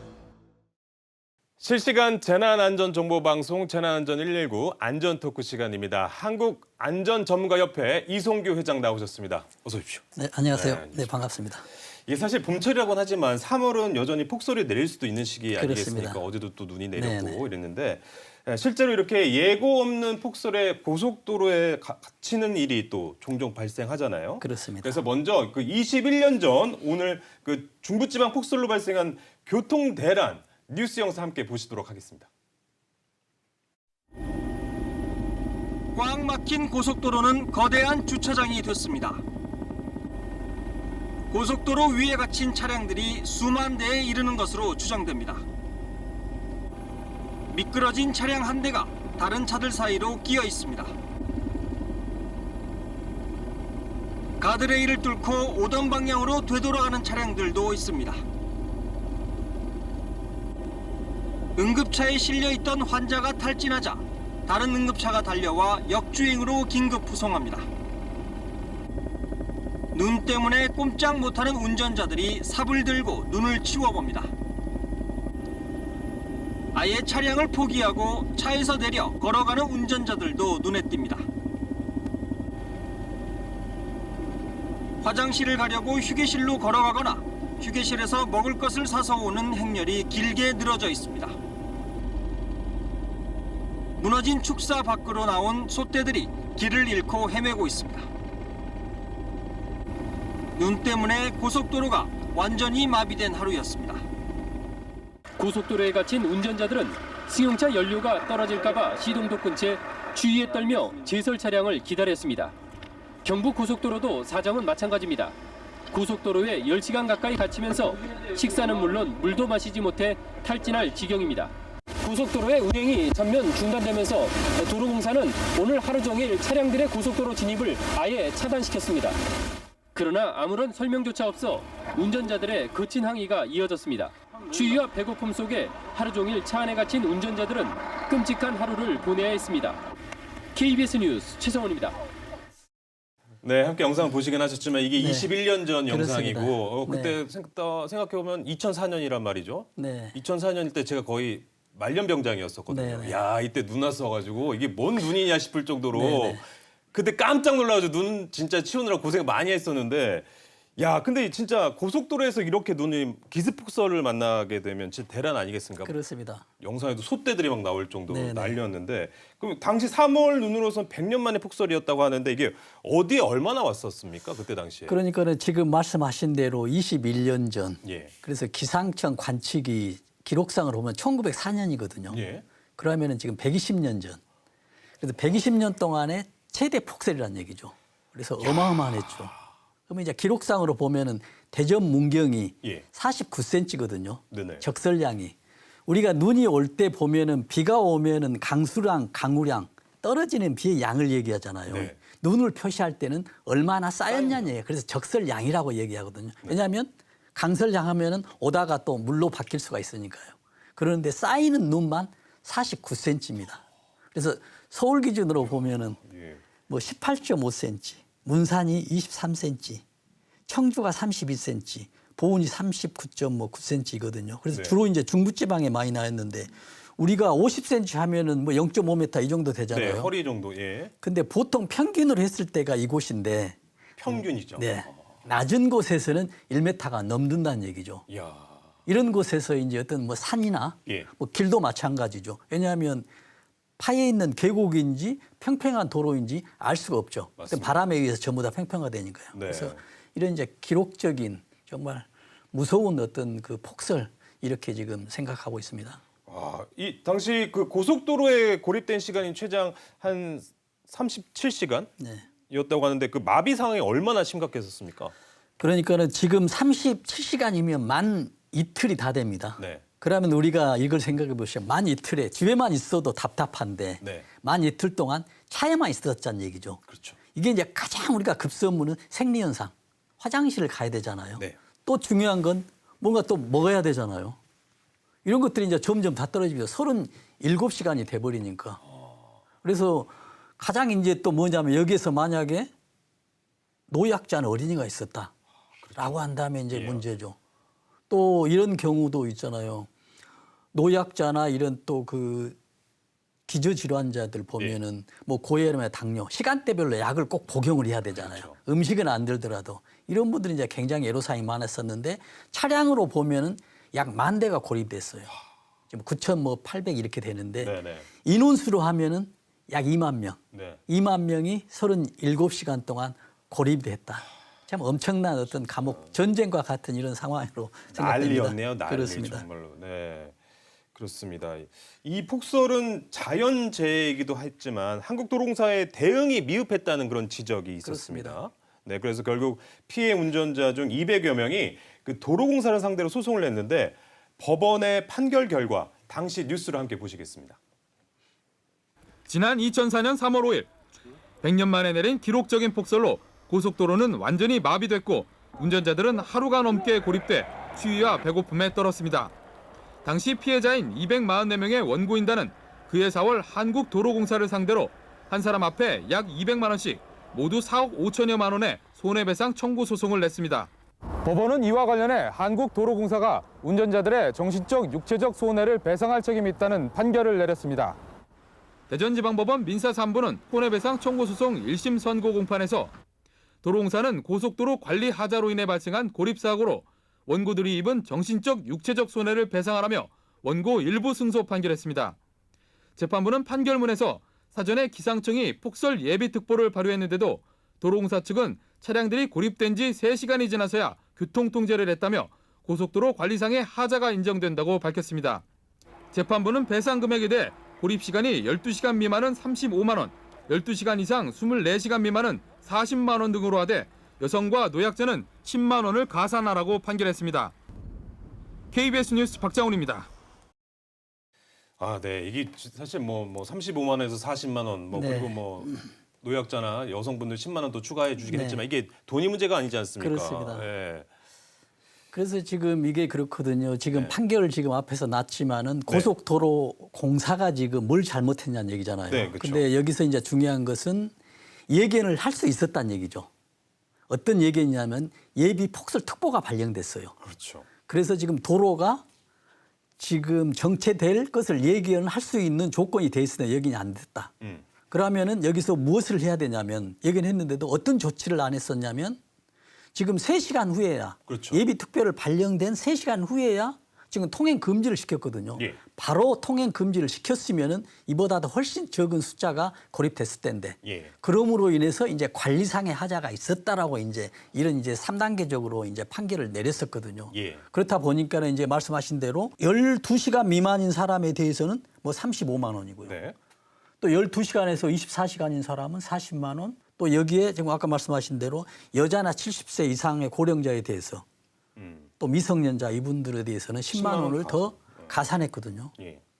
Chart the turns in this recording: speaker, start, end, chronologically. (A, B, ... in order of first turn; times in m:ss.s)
0:01.6-0:11.3 A
0:10.2-0:11.6 B
0:12.1-0:32.3 A
0:15.6-0:16.2 B
0:17.0-0:17.4 B
0:24.4-0:25.0 B
0:35.9-0:39.2 C
0:41.3-0:45.4 C
0:47.5-0:50.9 C
0:54.4-0:58.2 C
1:01.6-1:07.7 C
1:09.9-1:14.3 C
1:16.7-1:21.3 C
1:25.0-1:31.4 C
1:34.0-1:38.1 C
1:40.6-1:44.0 C
1:45.4-1:52.6 D
1:53.2-1:55.4 D
1:55.9-2:09.2 D
2:09.9-2:19.8 D
2:20.5-2:22.0 D
2:23.4-2:46.0 A
2:25.0-2:25.3 B
2:25.9-2:27.2 B
2:29.8-2:30.2 B
2:32.7-2:33.2 B
2:35.9-2:36.4 B
2:45.8-2:46.5 B
2:46.6-2:55.0 A
2:48.1-2:48.6 B
2:54.9-3:02.2 B
2:57.8-2:58.1 A
3:02.1-3:02.4 A
3:02.8-3:04.2 B
3:05.0-3:09.4 B
3:08.4-3:09.3 A
3:09.9-3:15.4 B
3:14.3-3:14.6 A
3:15.9-3:36.0 B
3:21.7-3:22.0 A
3:24.1-3:24.5 A
3:36.0-3:36.4 A
3:36.7-3:39.8 B
3:40.5-3:50.1 B
3:44.5-3:44.8 A
3:49.7-3:50.9 A
3:51.0-3:53.6 B
3:54.0-3:55.0 A
3:54.6-3:58.0 B
3:58.1-3:58.8 A
3:58.9-4:03.1 B
4:03.8-4:16.0 B
4:07.4-4:07.8 A
4:09.3-4:09.8 A
4:16.3-4:21.9 A
4:22.0-4:22.3 B
4:22.5-4:25.2 A
4:25.6-4:36.8 B
4:29.6-4:29.8 A
4:34.0-4:34.3 A
4:36.9-4:37.2 A
4:37.4-4:44.4 B
4:45.2-4:48.8 B
4:49.6-4:52.7 B
4:53.9-4:55.3 B
4:55.8-4:57.0 A
4:56.0-4:57.4 B
4:58.1-4:59.9 B
5:00.7-5:02.6 B
5:03.5-5:15.3 B
5:08.2-5:08.6 A
5:15.9-5:29.4 B
5:17.6-5:18.1 A
5:20.5-5:20.8 A
5:27.9-5:30.4 A
5:31.0-5:47.6 A
5:37.8-5:38.4 B
5:49.3-5:50.7 E
5:51.4-5:59.3 E
6:00.0-6:10.7 E
6:11.2-6:18.0 E
6:18.9-6:22.9 E
6:23.6-6:32.2 E
6:33.0-6:45.4 E
6:46.1-6:57.5 E
6:58.7-7:00.1 E
7:01.8-7:11.1 A
7:04.9-7:05.9 B
7:08.3-7:08.6 B
7:10.0-7:10.7 B
7:12.1-7:21.1 B
7:19.1-7:19.7 A
7:21.7-7:23.3 B
7:24.1-7:27.2 B
7:27.2-7:27.7 A
7:27.9-7:29.0 B
7:30.0-7:34.3 B
7:34.9-7:39.2 B
7:40.0-8:03.2 B
7:41.3-7:41.6 A
7:50.8-7:51.1 A
7:57.3-7:57.6 A
8:03.0-8:03.4 A
8:04.0-8:11.2 B
8:11.8-8:12.1 A
8:12.2-8:15.9 B
8:13.9-8:15.2 A